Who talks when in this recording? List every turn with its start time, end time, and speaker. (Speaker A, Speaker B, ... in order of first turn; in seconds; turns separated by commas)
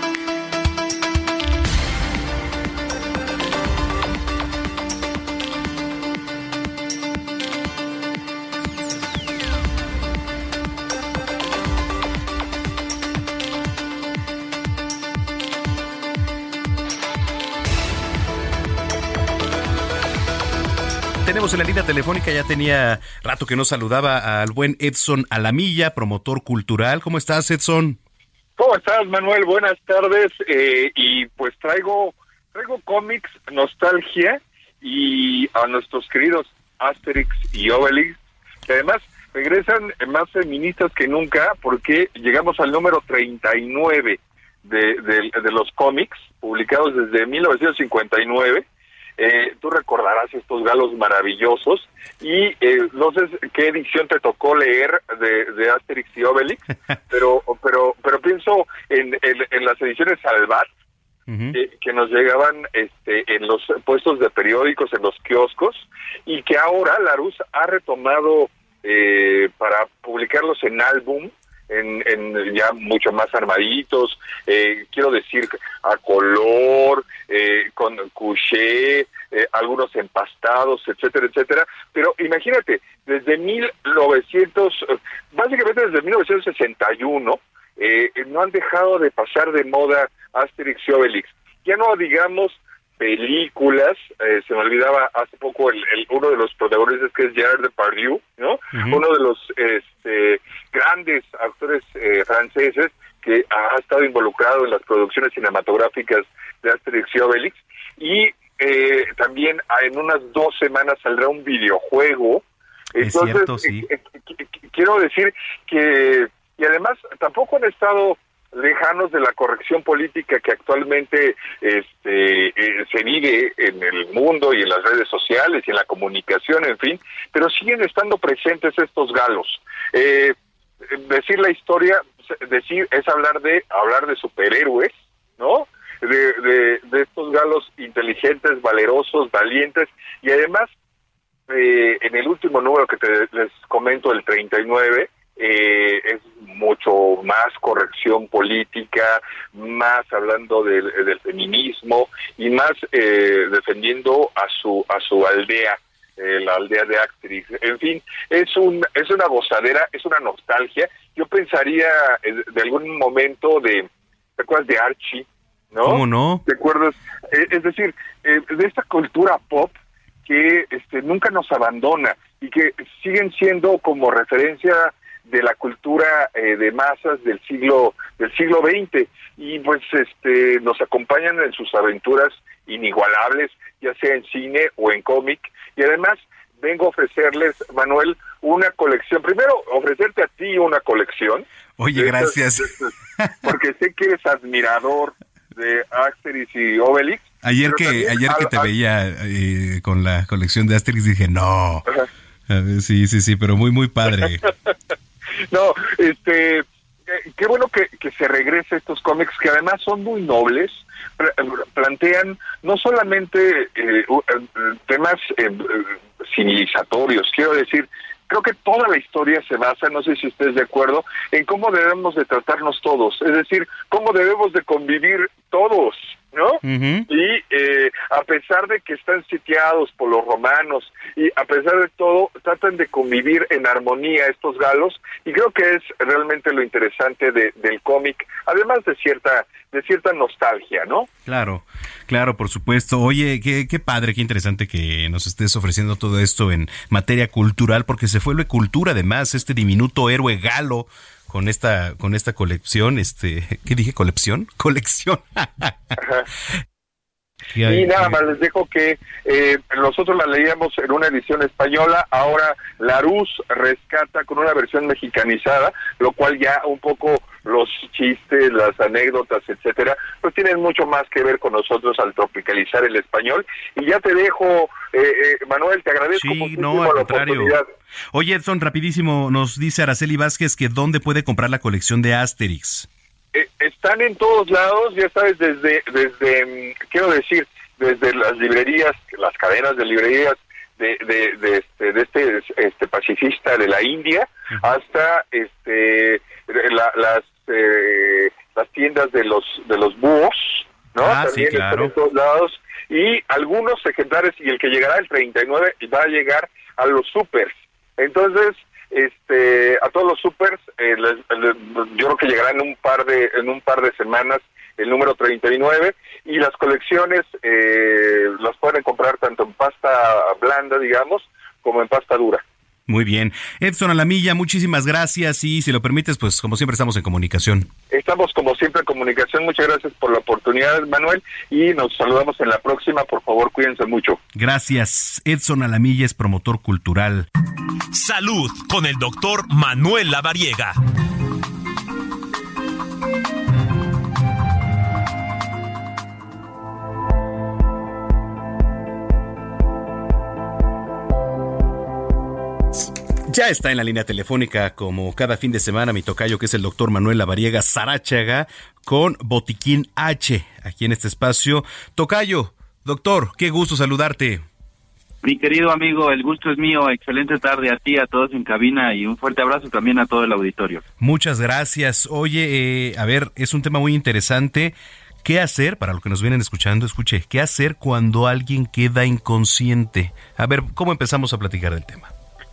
Speaker A: 21.2-28.0, Speaker B: 28.6-38.1, Speaker B: 38.7-48.6, Speaker B: 49.2-56.6, Speaker B: 57.1-60.7, Speaker A: 61.3-61.6, Speaker B: 61.5-112.4, Speaker A: 98.7-99.0, Speaker A: 113.0-113.9, Speaker B: 113.0-130.3, Speaker B: 130.9-140.7, Speaker B: 141.5-191.4, Speaker A: 165.8-166.4, Speaker A: 191.8-192.7, Speaker B: 192.0-192.3, Speaker A: 193.2-193.5, Speaker B: 193.4-198.7, Speaker A: 197.4-201.8, Speaker A: 202.5-204.4, Speaker B: 205.5-206.6, Speaker B: 207.4-241.1, Speaker A: 226.7-227.1, Speaker A: 241.3-255.7, Speaker A: 257.5-258.2, Speaker B: 257.6-277.6, Speaker A: 276.2-277.6, Speaker A: 278.1-282.9, Speaker B: 283.4-322.4, Speaker A: 301.0-301.9, Speaker A: 322.9-327.7, Speaker B: 327.9-334.2, Speaker A: 334.4-337.3, Speaker C: 337.9-340.8, Speaker A: 352.8-364.4, Speaker D: 365.2-370.8, Speaker A: 371.0-382.1